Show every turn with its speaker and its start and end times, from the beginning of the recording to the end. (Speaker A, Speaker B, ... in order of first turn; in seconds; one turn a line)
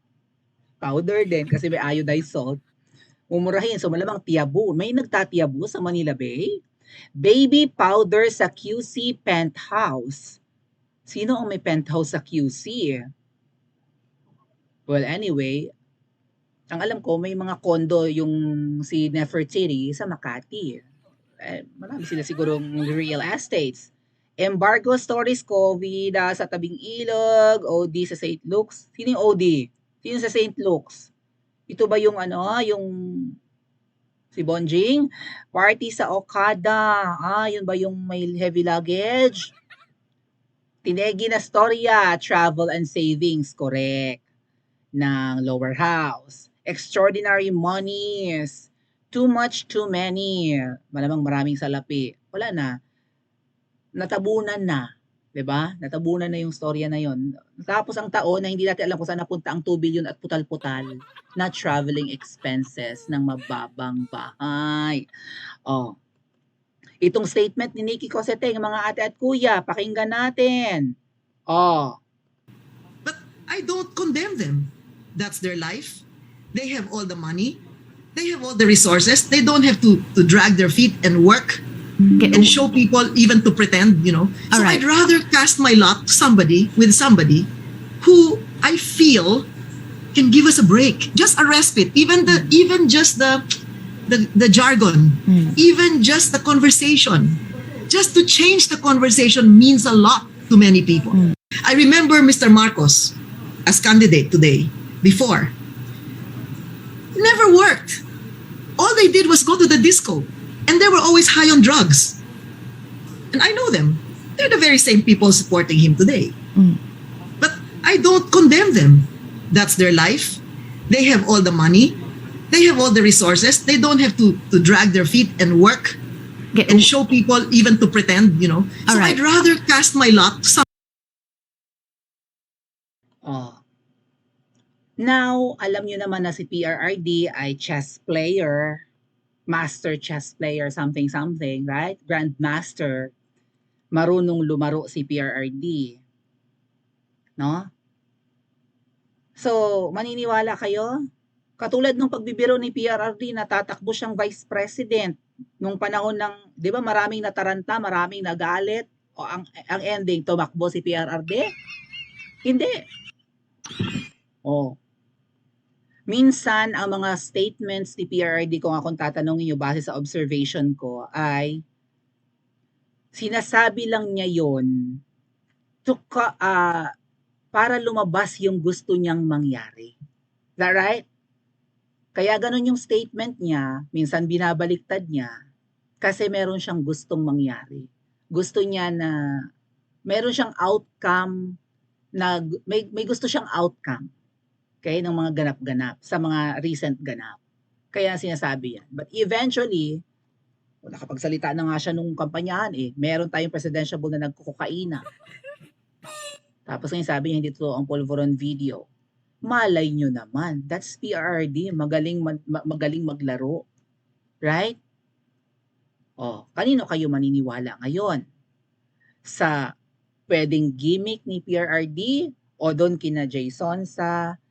Speaker A: 0.8-2.6
Speaker A: 3.3-6.5
Speaker A: 7.2-10.4
Speaker A: 11.1-13.0
Speaker A: 14.9-15.7
Speaker A: 16.7-20.8
Speaker A: 21.4-31.1
Speaker A: 31.7-32.9
Speaker A: 34.3-39.5
Speaker A: 40.8-44.2
Speaker A: 45.0-52.7
Speaker A: 54.0-60.9
Speaker A: 61.4-65.0
Speaker A: 65.7-65.9
Speaker A: 67.0-70.9
Speaker A: 71.5-72.0
Speaker B: 73.0-77.6
Speaker B: 78.2-81.7
Speaker C: 82.2-82.5
Speaker B: 82.3-87.5
Speaker C: 84.5-84.8
Speaker B: 88.0-89.5
Speaker B: 90.1-93.5
Speaker B: 94.1-105.5
Speaker C: 95.3-95.5
Speaker B: 107.2-108.0
Speaker B: 108.8-112.2
Speaker B: 113.3-116.4
Speaker B: 117.4-122.0
Speaker B: 122.5-126.0
Speaker C: 126.5-126.9
Speaker B: 126.7-130.6
Speaker C: 128.9-129.2
Speaker A: 133.2-133.6
Speaker A: 135.0-138.8
Speaker A: 139.5-143.1
Speaker A: 143.9-146.0
Speaker A: 147.4-147.7
Speaker A: 149.4-150.9
Speaker A: 151.6-161.5
Speaker A: 162.5-162.7
Speaker A: 164.5-164.8
Speaker A: 166.1-171.6
Speaker A: 173.1-174.7
Speaker A: 175.9-176.9
Speaker A: 177.5-179.9
Speaker A: 180.6-181.1
Speaker A: 182.2-185.3
Speaker A: 186.0-189.1
Speaker A: 190.1-191.3
Speaker A: 192.2-194.1
Speaker A: 194.8-197.4
Speaker A: 197.9-200.0
Speaker A: 200.8-205.0
Speaker A: 206.7-208.8
Speaker A: 209.5-213.6
Speaker A: 214.4-214.8
Speaker A: 216.2-218.2
Speaker A: 219.3-219.5
Speaker A: 220.3-224.2